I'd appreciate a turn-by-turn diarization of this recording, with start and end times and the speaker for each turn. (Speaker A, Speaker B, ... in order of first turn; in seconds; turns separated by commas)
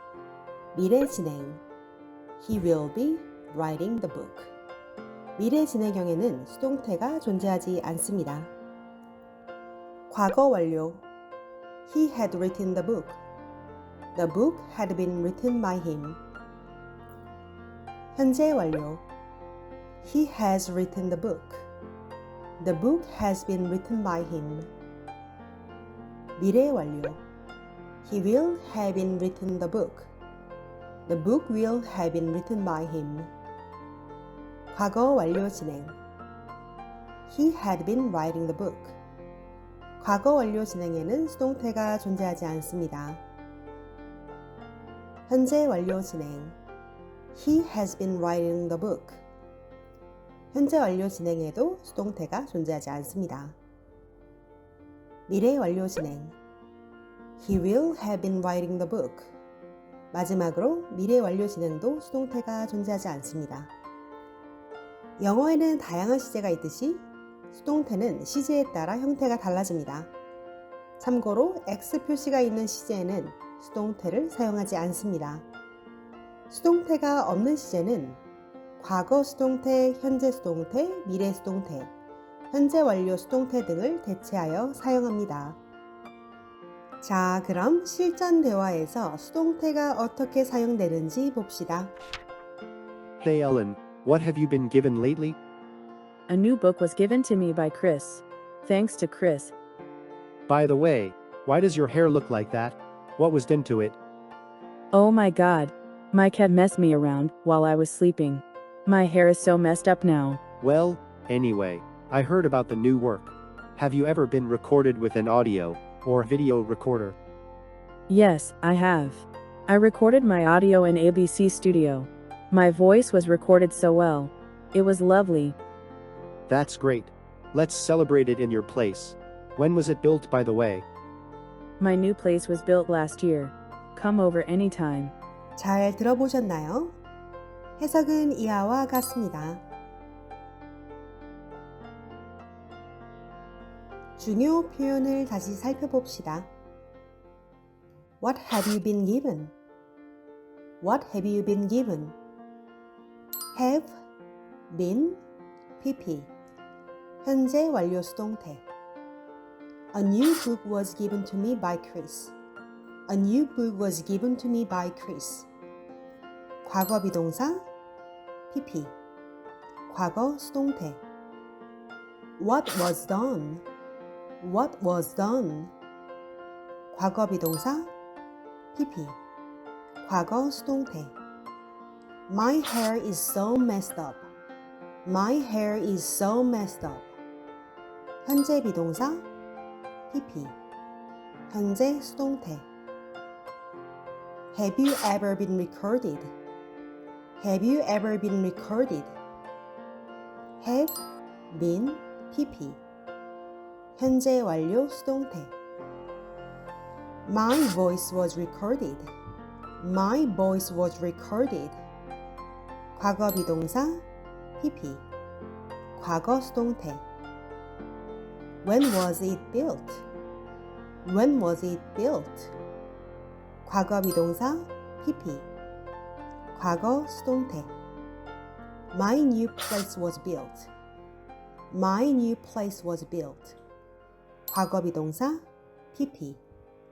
Speaker A: 0.7-1.6, Speaker A: 2.4-4.5, Speaker A: 5.4-8.5, Speaker A: 10.1-11.0, Speaker A: 11.9-13.2, Speaker A: 14.1-16.2, Speaker A: 18.1-19.1, Speaker A: 20.0-21.7, Speaker A: 22.6-24.7, Speaker A: 26.4-27.2, Speaker A: 28.0-30.1, Speaker A: 31.1-33.3, Speaker A: 34.7-35.9, Speaker A: 37.3-39.0, Speaker A: 40.0-43.2, Speaker A: 45.3-46.5, Speaker A: 47.3-49.2, Speaker A: 50.5-53.5, Speaker A: 55.3-56.3, Speaker A: 57.4-59.3, Speaker A: 60.1-63.7, Speaker A: 65.2-70.1, Speaker A: 71.0-75.4, Speaker A: 76.5-78.2, Speaker A: 78.8-81.9, Speaker A: 82.5-85.6, Speaker A: 87.0-91.9, Speaker B: 93.2-95.4, Speaker C: 96.3-99.5, Speaker B: 100.5-104.0, Speaker C: 104.9-110.4, Speaker B: 110.6-117.2, Speaker C: 118.1-125.5, Speaker B: 126.5-130.8, Speaker C: 131.8-135.1, Speaker A: 135.6-137.0, Speaker A: 137.8-139.6, Speaker A: 144.2-146.5, Speaker A: 148.2-149.5, Speaker A: 150.8-152.2, Speaker A: 153.5-153.9, Speaker A: 154.7-155.2, Speaker A: 155.8-156.3, Speaker A: 157.2-158.6, Speaker A: 159.9-162.3, Speaker A: 163.1-165.5, Speaker A: 166.6-167.6, Speaker A: 168.5-168.9, Speaker A: 169.9-171.0, Speaker A: 172.4-173.6, Speaker A: 174.4-175.7, Speaker A: 176.9-177.9, Speaker A: 178.7-179.2, Speaker A: 180.0-181.1, Speaker A: 182.3-184.3, Speaker A: 185.0-187.1, Speaker A: 188.2-189.2, Speaker A: 190.1-190.6, Speaker A: 191.5-192.7, Speaker A: 194.5-196.3, Speaker A: 197.4-199.2, Speaker A: 200.6-202.8, Speaker A: 203.9-205.5, Speaker A: 207.2-209.1, Speaker A: 209.8-211.8, Speaker A: 212.9-214.0, Speaker A: 214.6-215.1, Speaker A: 215.9-217.0, Speaker A: 218.6-220.1, Speaker A: 221.0-222.5, Speaker A: 223.6-225.5, Speaker A: 226.5-227.7, Speaker A: 228.9-230.7, Speaker A: 231.7-233.6, Speaker A: 234.5-236.4